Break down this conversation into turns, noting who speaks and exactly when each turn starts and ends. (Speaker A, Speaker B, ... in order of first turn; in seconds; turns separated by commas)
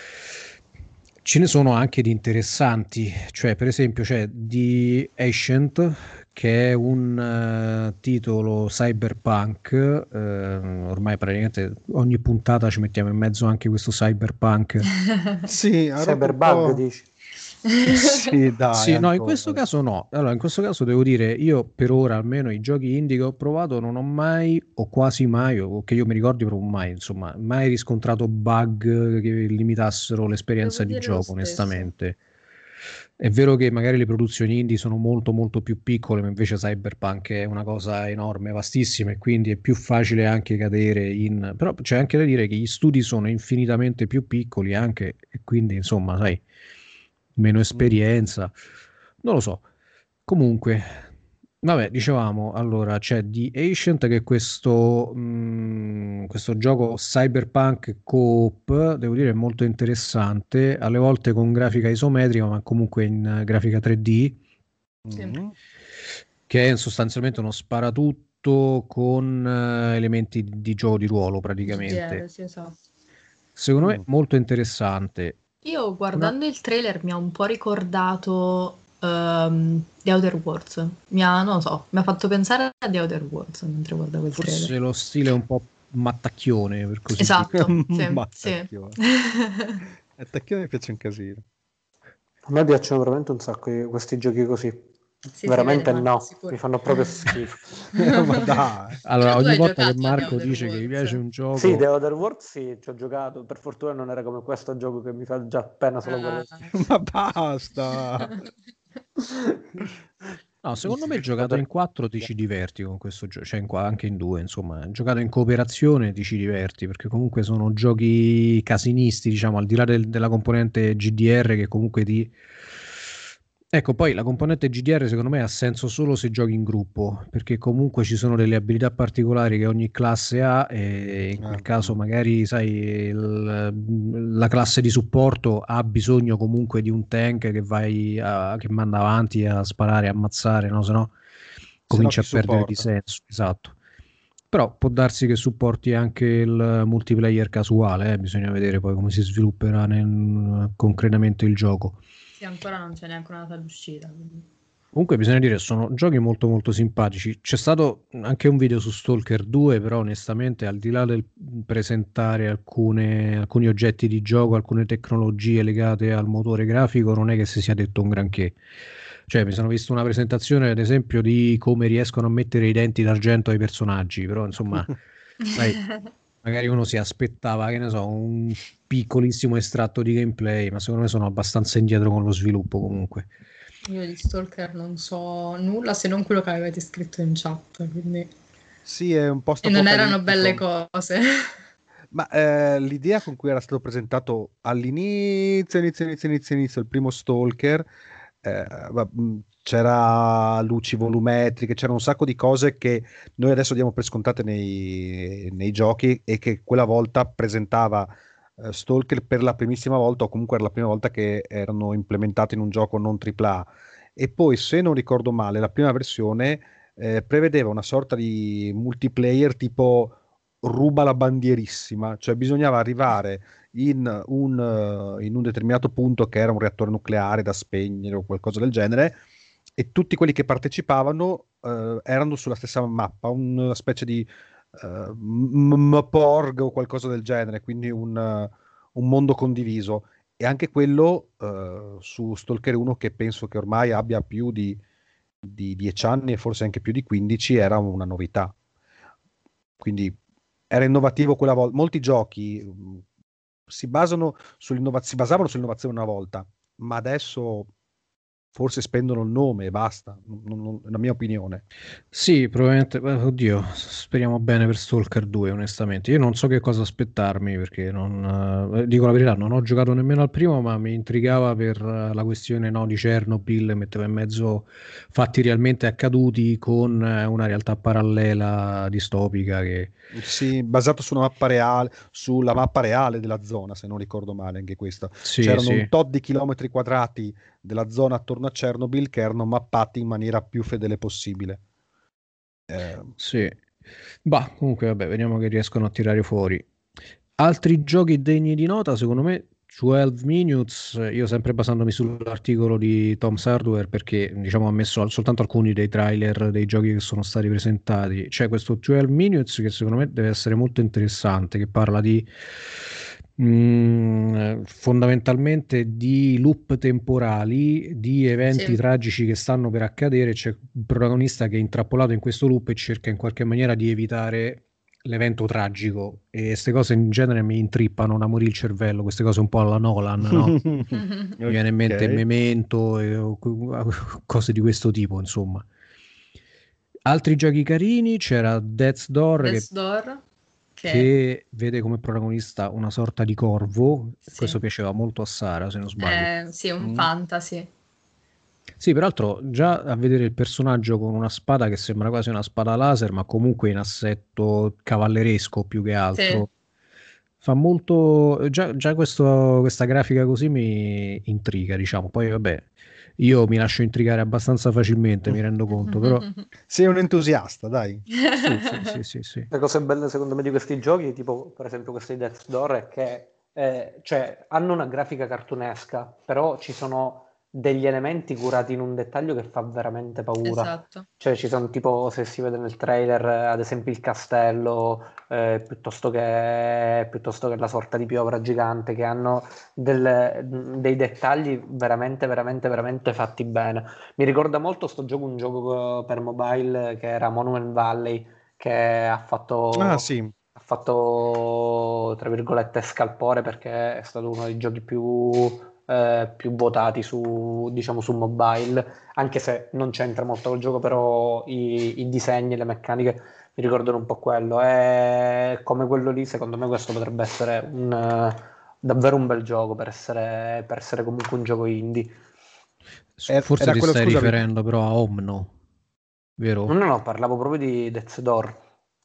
Speaker A: 1.2-14.9, Speaker B: 15.1-15.5, Speaker C: 15.5-16.8, Speaker D: 16.0-17.1, Speaker B: 17.7-18.3, Speaker C: 17.9-19.6, Speaker A: 18.7-32.2, Speaker B: 30.6-31.9, Speaker A: 33.2-46.4, Speaker A: 47.4-48.5, Speaker C: 47.7-48.0, Speaker A: 49.2-49.6, Speaker A: 50.3-51.0, Speaker A: 51.6-64.4, Speaker C: 65.0-65.5, Speaker A: 66.5-72.2, Speaker B: 71.7-72.8, Speaker A: 73.6-75.4, Speaker B: 75.6-84.7, Speaker A: 84.3-87.5, Speaker B: 87.2-89.8, Speaker C: 87.5-89.0, Speaker C: 90.2-91.4, Speaker D: 92.5-94.9, Speaker B: 95.4-97.4, Speaker D: 95.4-98.1, Speaker B: 98.0-98.5, Speaker C: 98.0-99.0, Speaker A: 99.0-101.9, Speaker B: 99.2-101.2, Speaker D: 101.6-106.7, Speaker B: 106.0-106.7, Speaker C: 106.7-108.4, Speaker D: 109.3-109.6, Speaker A: 110.6-122.3, Speaker C: 110.9-111.6, Speaker A: 123.7-141.1, Speaker C: 131.4-131.9, Speaker A: 141.9-143.8, Speaker C: 141.9-142.9, Speaker A: 144.5-152.0, Speaker B: 152.4-154.4, Speaker A: 154.9-168.6, Speaker A: 169.3-174.9, Speaker B: 175.4-176.1, Speaker A: 176.4-183.3, Speaker B: 183.9-188.3, Speaker C: 188.8-190.6, Speaker B: 189.6-191.6, Speaker C: 192.1-197.9, Speaker C: 198.4-229.2, Speaker C: 229.8-244.8, Speaker C: 245.4-248.5, Speaker C: 249.8-250.2, Speaker C: 250.7-253.0, Speaker C: 253.7-257.7, Speaker C: 258.5-261.6, Speaker A: 262.1-279.9, Speaker C: 280.1-291.6, Speaker A: 285.2-285.9, Speaker C: 292.7-293.1, Speaker A: 293.2-293.6, Speaker A: 294.2-296.6, Speaker A: 297.4-312.3, Speaker A: 313.4-330.6, Speaker B: 318.5-318.8, Speaker C: 330.3-332.2, Speaker B: 330.9-331.4, Speaker A: 331.5-335.6, Speaker A: 337.1-339.7, Speaker B: 339.4-340.2, Speaker B: 340.8-341.1, Speaker A: 340.9-346.3, Speaker B: 346.0-347.7, Speaker C: 346.8-347.1, Speaker A: 348.8-356.5, Speaker B: 356.1-356.4, Speaker A: 357.4-366.3, Speaker B: 365.9-366.4, Speaker C: 366.7-368.1, Speaker B: 368.3-368.9, Speaker A: 368.4-369.5, Speaker D: 369.5-422.1, Speaker B: 380.4-381.1, Speaker C: 399.8-400.3, Speaker A: 423.2-425.5, Speaker C: 423.3-424.4, Speaker A: 426.4-426.7, Speaker D: 426.7-428.6